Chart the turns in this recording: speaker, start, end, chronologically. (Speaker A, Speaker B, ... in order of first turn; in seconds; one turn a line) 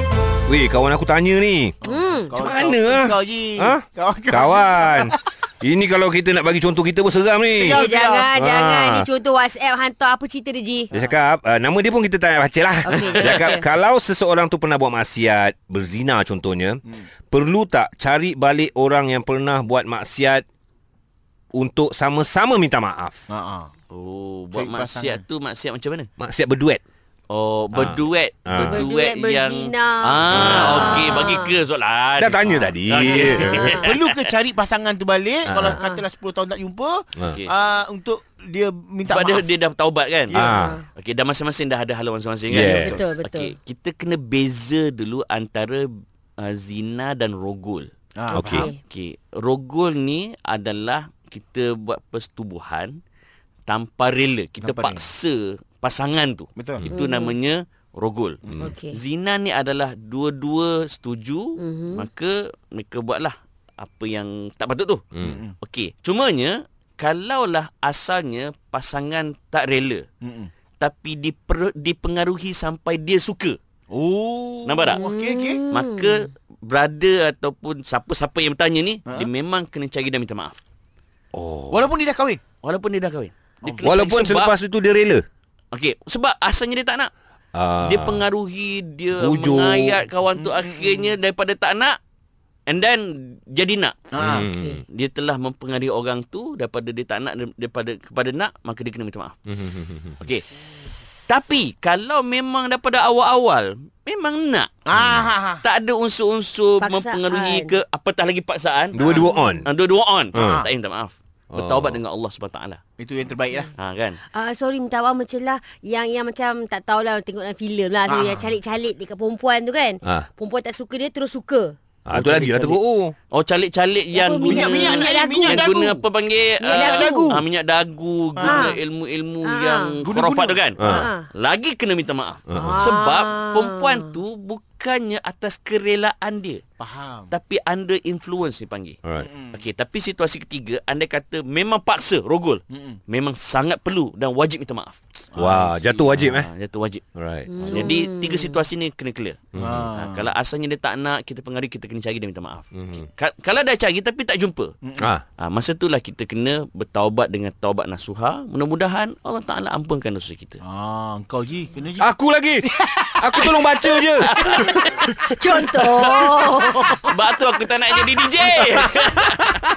Speaker A: 0.5-1.7
Speaker B: 1.8-5.2
Speaker C: 1.9-2.4
Speaker A: 2.4-7.8
Speaker B: 7.5-8.3
Speaker C: 7.7-10.9
Speaker A: 8.3-9.1
Speaker A: 10.9-20.4
Speaker C: 12.8-13.7
Speaker D: 13.0-13.4
Speaker A: 21.5-23.2
Speaker B: 23.3-23.7
Speaker D: 23.9-26.1
Speaker B: 24.5-25.2
Speaker A: 26.2-26.8
Speaker D: 27.3-34.2
Speaker A: 27.7-28.8
Speaker C: 28.6-31.5
Speaker A: 30.3-31.2
Speaker A: 32.2-33.8
Speaker B: 33.0-39.5
Speaker A: 35.5-35.8
Speaker C: 35.7-36.0
Speaker D: 39.1-40.4
Speaker B: 40.3-40.7
Speaker A: 40.4-40.8
Speaker C: 40.5-40.8
Speaker D: 40.9-45.9
Speaker A: 42.5-43.0
Speaker C: 42.6-43.5
Speaker D: 46.4-47.9
Speaker B: 48.2-48.7
Speaker A: 48.3-48.7
Speaker C: 48.4-48.8
Speaker D: 48.8-53.0
Speaker D: 53.7-65.0
Speaker B: 54.6-55.0
Speaker B: 56.6-56.9
Speaker C: 56.9-57.3
Speaker C: 58.6-59.0
Speaker C: 61.6-62.0
Speaker A: 65.1-65.4
Speaker B: 65.2-65.5
Speaker D: 65.6-70.0
Speaker B: 70.2-70.5
Speaker D: 70.8-73.6
Speaker B: 73.9-75.6
Speaker D: 74.6-75.0
Speaker C: 74.9-76.2
Speaker D: 75.7-80.6
Speaker A: 81.3-81.9
Speaker B: 81.7-82.4
Speaker D: 82.6-84.5
Speaker A: 83.8-85.2
Speaker D: 85.7-87.1
Speaker A: 87.5-88.2
Speaker D: 87.8-92.0
Speaker A: 89.2-90.0
Speaker B: 90.3-91.1
Speaker D: 92.7-94.1
Speaker B: 94.1-94.5
Speaker A: 94.2-94.8
Speaker C: 94.3-94.8
Speaker D: 94.9-99.4
Speaker A: 99.5-100.2
Speaker D: 100.2-100.4
Speaker D: 101.3-104.7
Speaker B: 104.9-105.6
Speaker A: 104.9-105.3
Speaker D: 105.6-112.8
Speaker C: 106.8-107.8
Speaker A: 108.9-109.7
Speaker B: 109.0-109.3
Speaker C: 109.1-109.6
Speaker A: 110.3-110.7
Speaker B: 110.3-110.7
Speaker A: 111.5-112.0
Speaker B: 113.0-113.7
Speaker D: 113.8-114.2
Speaker C: 114.3-121.7
Speaker B: 118.1-118.5
Speaker A: 122.0-123.1
Speaker B: 122.1-123.0
Speaker D: 123.3-136.6
Speaker C: 124.1-125.7
Speaker B: 124.5-126.0
Speaker C: 126.6-127.4
Speaker B: 126.7-127.4
Speaker B: 128.3-128.7
Speaker C: 128.4-128.8
Speaker C: 129.4-129.9
Speaker B: 130.0-131.1
Speaker A: 130.8-131.1
Speaker C: 130.8-131.3
Speaker A: 132.5-132.8
Speaker C: 132.5-134.1
Speaker B: 136.8-137.3
Speaker D: 137.3-139.0
Speaker A: 139.0-139.3
Speaker B: 139.2-139.6
Speaker D: 139.5-145.0
Speaker B: 142.7-143.0
Speaker B: 145.3-146.2
Speaker A: 145.4-146.5
Speaker D: 146.1-147.0
Speaker A: 147.2-147.5
Speaker C: 147.5-148.6
Speaker D: 147.6-154.7
Speaker B: 147.7-147.9
Speaker A: 149.5-149.9
Speaker B: 149.5-150.3
Speaker A: 152.7-153.1
Speaker A: 155.0-155.2
Speaker D: 155.4-160.6
Speaker B: 160.6-162.1
Speaker A: 162.0-166.3
Speaker B: 162.8-163.6
Speaker D: 164.2-165.2
Speaker C: 165.3-167.0
Speaker D: 165.9-169.6